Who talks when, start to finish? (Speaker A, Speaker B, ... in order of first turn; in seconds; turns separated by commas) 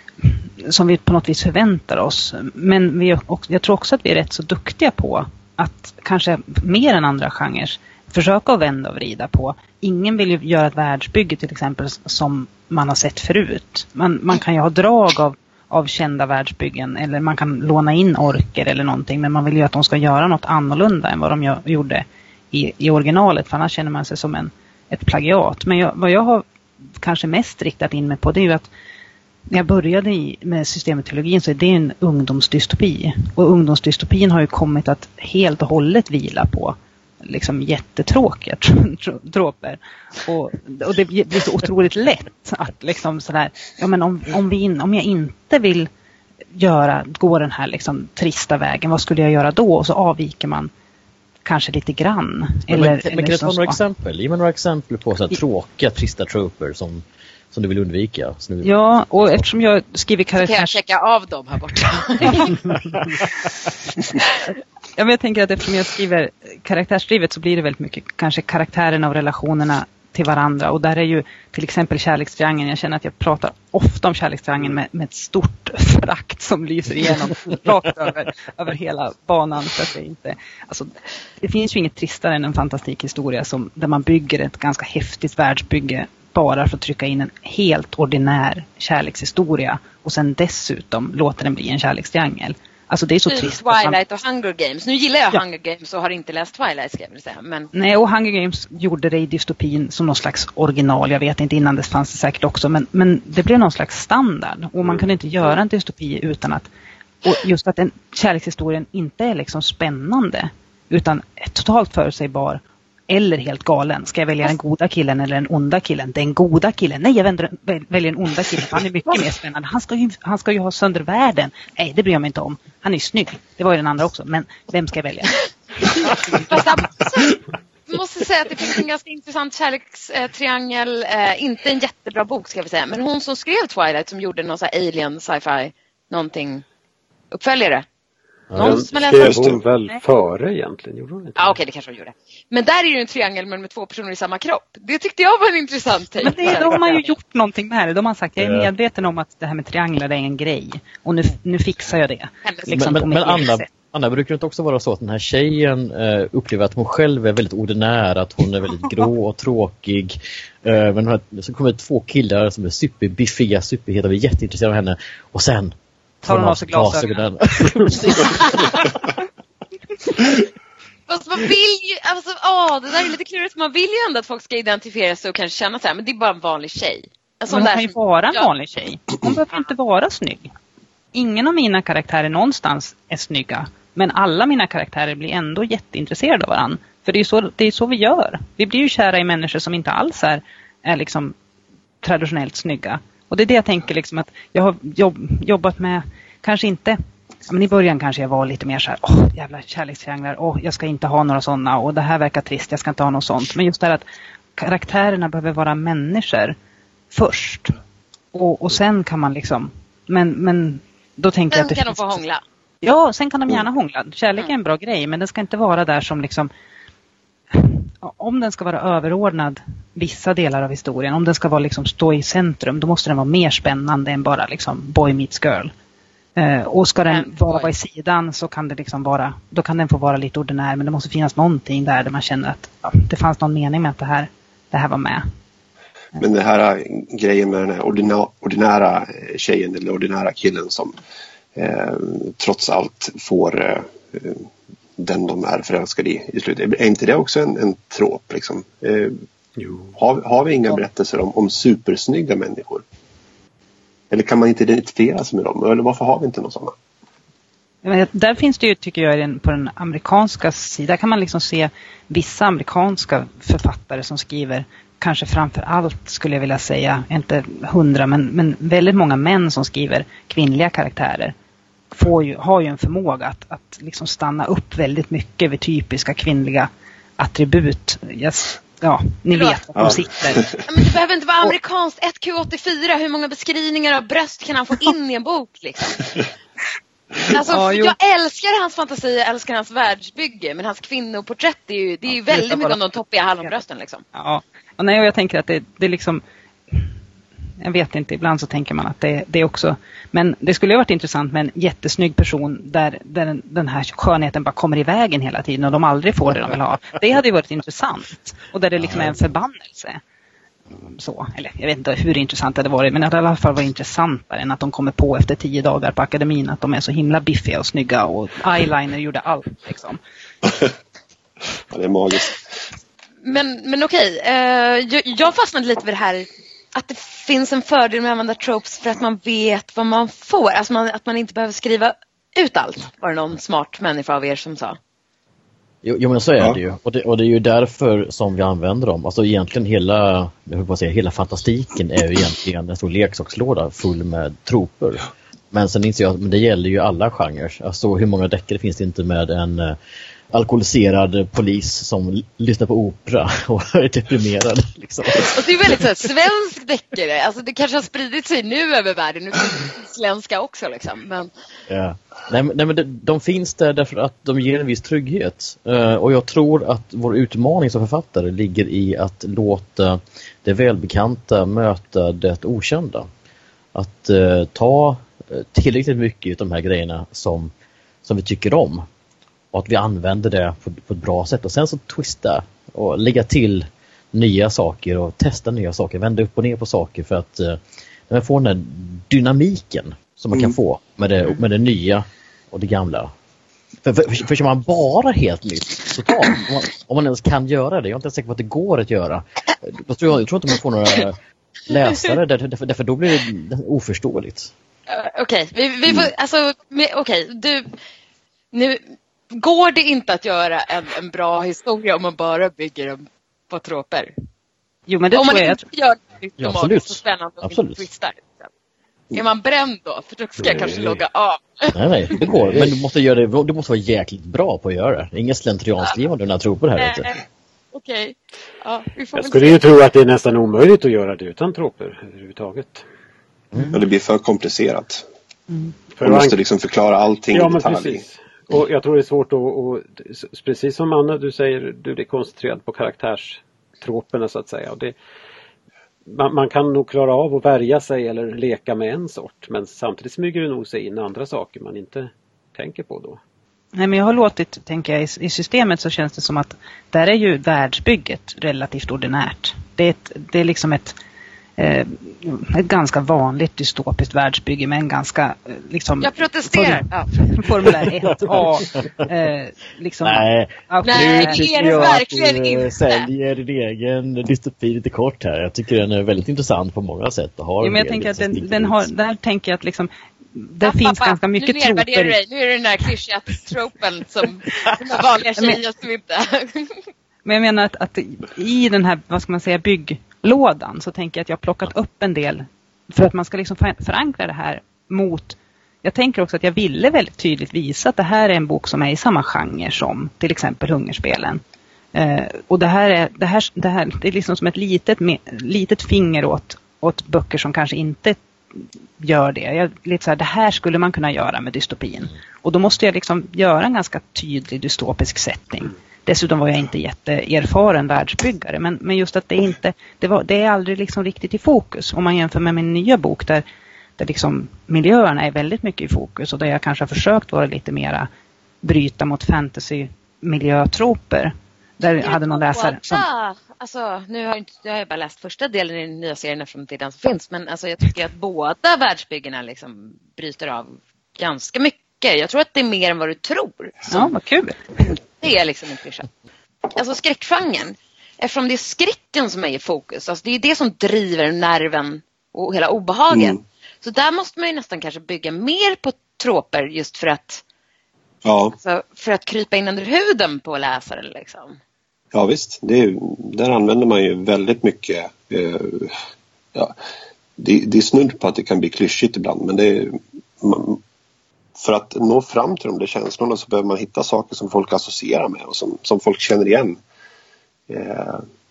Speaker A: 0.2-26.4, Speaker A: 27.0-28.7, Speaker A: 29.5-45.9, Speaker A: 46.5-50.7, Speaker A: 51.5-53.8, Speaker B: 52.7-59.4, Speaker A: 58.6-60.8, Speaker C: 60.4-62.6, Speaker A: 62.3-62.6, Speaker A: 65.0-94.0, Speaker C: 93.3-97.7, Speaker A: 97.7-106.7, Speaker A: 107.2-126.9, Speaker C: 126.3-136.6, Speaker C: 137.3-137.8, Speaker B: 138.5-138.9, Speaker C: 138.6-139.4, Speaker D: 138.6-141.6, Speaker E: 139.2-139.6, Speaker C: 141.4-147.1, Speaker A: 146.2-153.7, Speaker B: 148.4-148.7, Speaker C: 152.4-152.7, Speaker B: 152.7-168.8, Speaker A: 166.3-168.9, Speaker C: 171.1-178.5, Speaker A: 177.5-180.5, Speaker A: 181.1-191.3, Speaker A: 192.0-204.1, Speaker A: 204.6-206.6, Speaker A: 207.1-207.7, Speaker A: 208.3-212.2, Speaker C: 211.5-212.4, Speaker A: 212.8-216.5, Speaker A: 217.5-225.7, Speaker A: 226.4-235.2, Speaker C: 227.1-227.7, Speaker E: 236.2-240.9, Speaker E: 241.6-244.4, Speaker E: 245.0-249.2, Speaker D: 249.6-249.9, Speaker E: 249.9-252.8, Speaker E: 254.1-256.7, Speaker A: 257.8-271.3, Speaker A: 271.9-280.4, Speaker C: 279.3-280.0, Speaker E: 279.8-280.6, Speaker C: 280.7-286.0, Speaker C: 287.3-294.0, Speaker A: 287.3-287.9, Speaker A: 292.2-292.8, Speaker A: 294.1-296.2, Speaker A: 297.6-310.0, Speaker B: 308.8-309.1, Speaker A: 310.7-320.0, Speaker E: 321.7-322.4, Speaker C: 323.2-334.8, Speaker B: 335.8-349.8, Speaker B: 350.3-355.8, Speaker C: 355.2-361.3, Speaker B: 361.7-373.1, Speaker B: 373.7-377.5, Speaker B: 378.0-378.9, Speaker B: 379.5-393.1, Speaker B: 393.8-404.5, Speaker C: 404.9-407.8, Speaker C: 408.5-414.1, Speaker A: 414.9-415.6, Speaker C: 415.1-418.5, Speaker B: 416.4-417.8, Speaker C: 419.1-422.2, Speaker D: 420.4-421.0, Speaker B: 421.7-427.1, Speaker D: 422.3-422.7, Speaker C: 426.8-429.6, Speaker D: 429.1-432.9, Speaker E: 433.7-435.0, Speaker D: 435.9-436.4, Speaker E: 436.0-438.0, Speaker D: 437.3-444.9, Speaker D: 446.1-453.2, Speaker A: 453.8-461.0, Speaker A: 461.6-472.0, Speaker C: 466.0-467.2, Speaker B: 468.1-469.1, Speaker B: 470.0-478.9, Speaker C: 470.8-473.1, Speaker A: 477.6-482.2, Speaker C: 480.6-486.8, Speaker A: 487.2-501.4, Speaker A: 501.9-508.2, Speaker A: 509.0-523.4, Speaker A: 524.0-528.1, Speaker A: 528.6-533.0, Speaker C: 532.0-544.0, Speaker A: 543.9-544.7, Speaker C: 545.0-546.1, Speaker C: 546.8-557.4, Speaker E: 553.1-553.4, Speaker E: 558.2-558.6, Speaker C: 558.6-561.6, Speaker E: 562.1-566.0, Speaker E: 567.4-570.8, Speaker E: 571.6-576.8, Speaker E: 577.7-578.2